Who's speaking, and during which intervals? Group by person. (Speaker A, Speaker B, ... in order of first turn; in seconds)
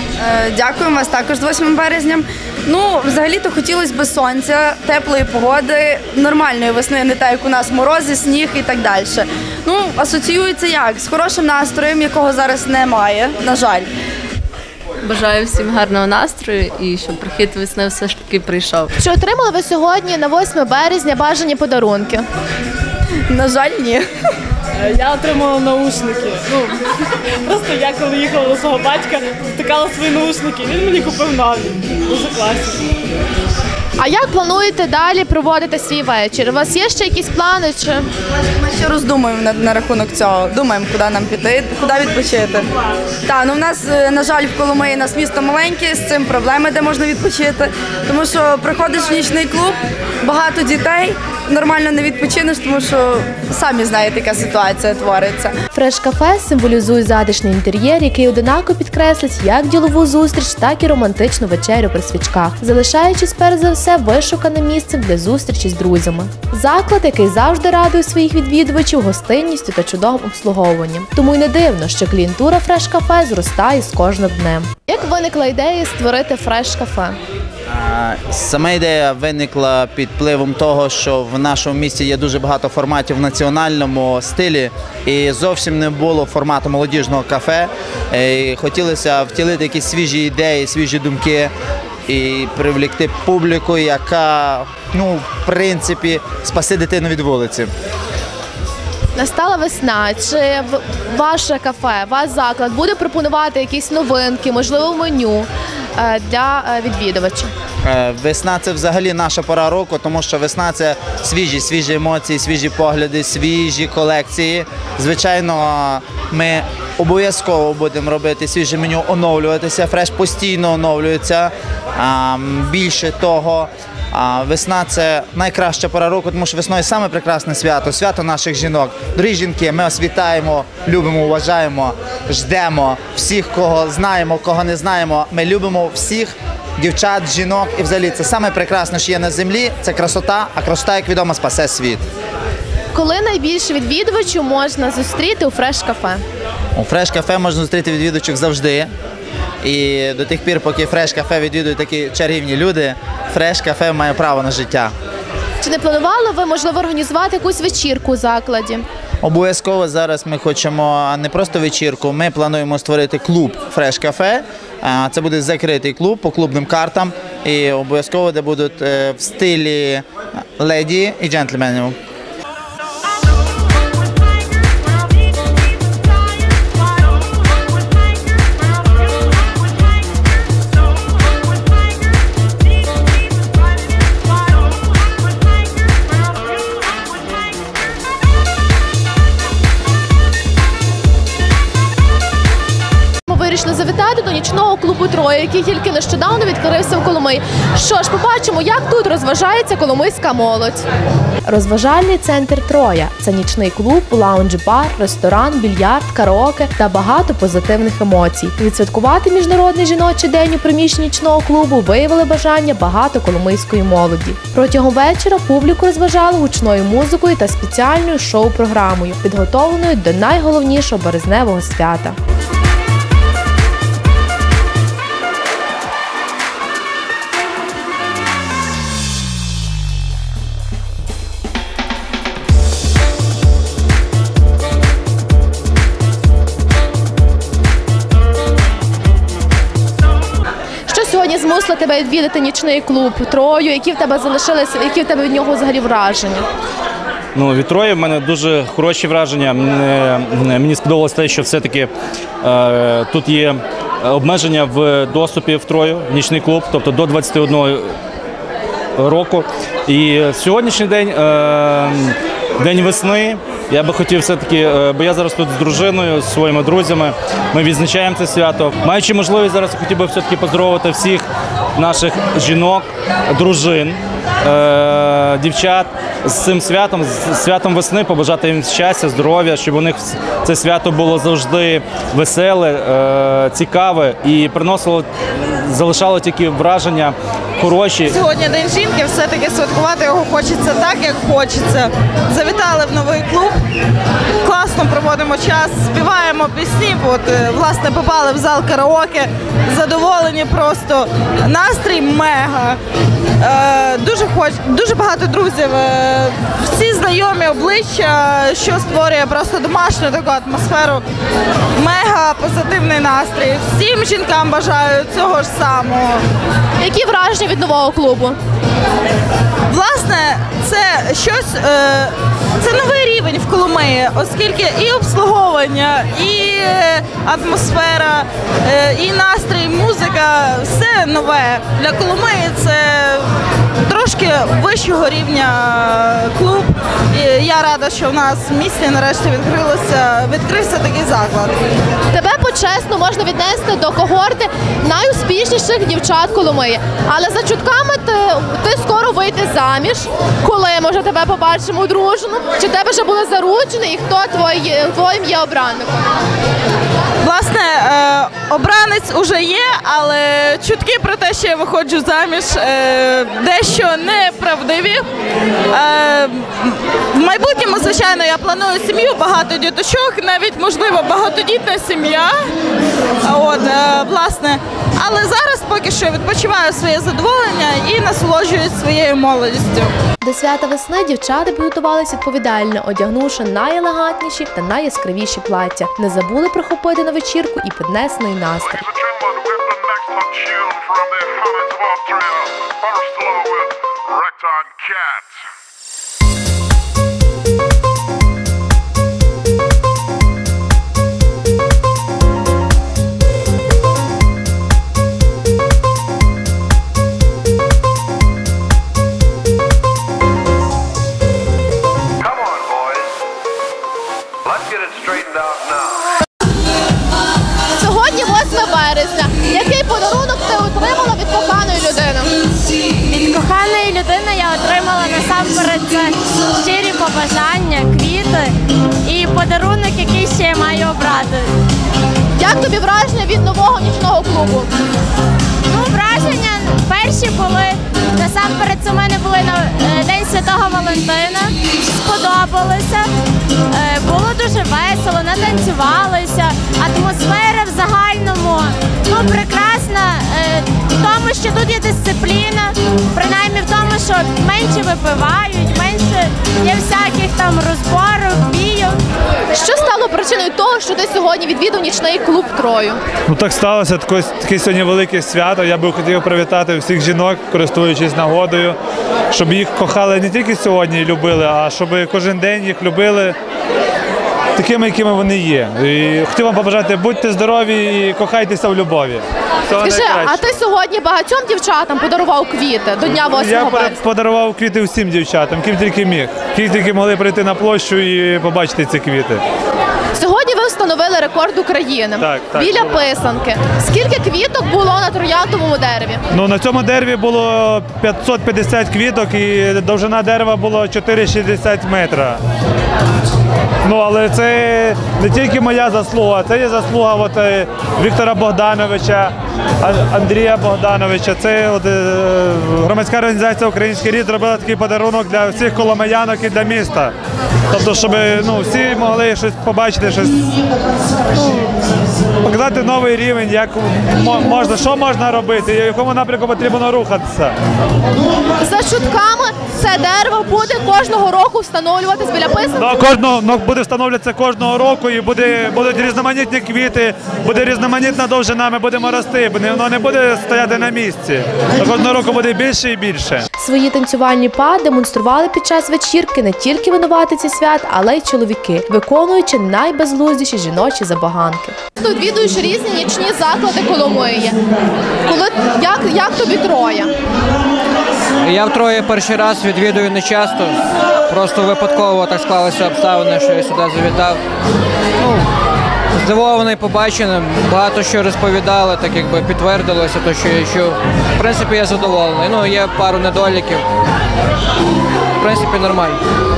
Speaker A: 0.2-13.9, 23.3-24.0, 38.8-42.6, 43.3-55.5
Speaker B: 15.0-18.9
Speaker C: 19.0-22.3, 34.0-38.1, 55.7-77.2, 99.2-107.5, 142.9-146.2, 155.6-158.8, 193.3-200.8, 201.5-222.2, 240.9-246.4, 316.8-318.4, 342.1-355.9, 380.2-388.9, 417.8-422.2, 432.4-434.7, 459.5-463.0, 479.8-484.0, 490.2-496.2, 528.6-532.8, 543.6-554.6, 555.3-557.1
Speaker D: 24.9-26.7, 27.5-32.7
Speaker E: 77.7-91.5, 92.1-97.7, 107.8-142.0, 146.8-148.9, 149.6-154.9, 159.2-172.0
Speaker F: 247.3-257.9, 259.0-288.2
Speaker G: 288.1-293.6, 294.4-302.8, 303.4-311.0, 311.8-316.2, 319.7-333.3, 333.9-341.6, 357.2-365.1, 365.7-372.4, 373.2-379.9
Speaker H: 388.9-395.3, 412.4-412.9, 414.8-415.6
Speaker I: 423.1-431.5, 435.7-443.1, 443.7-459.0
Speaker J: 463.3-468.8, 469.3-473.4, 474.6-480.6, 483.1-489.4, 492.2-493.1, 496.3-502.4, 503.9-517.1, 517.7-520.4, 522.4-527.5, 532.8-543.5
Speaker K: 558.4-560.8, 561.3-564.4, 565.2-565.5, 566.1-573.9, 575.4-576.2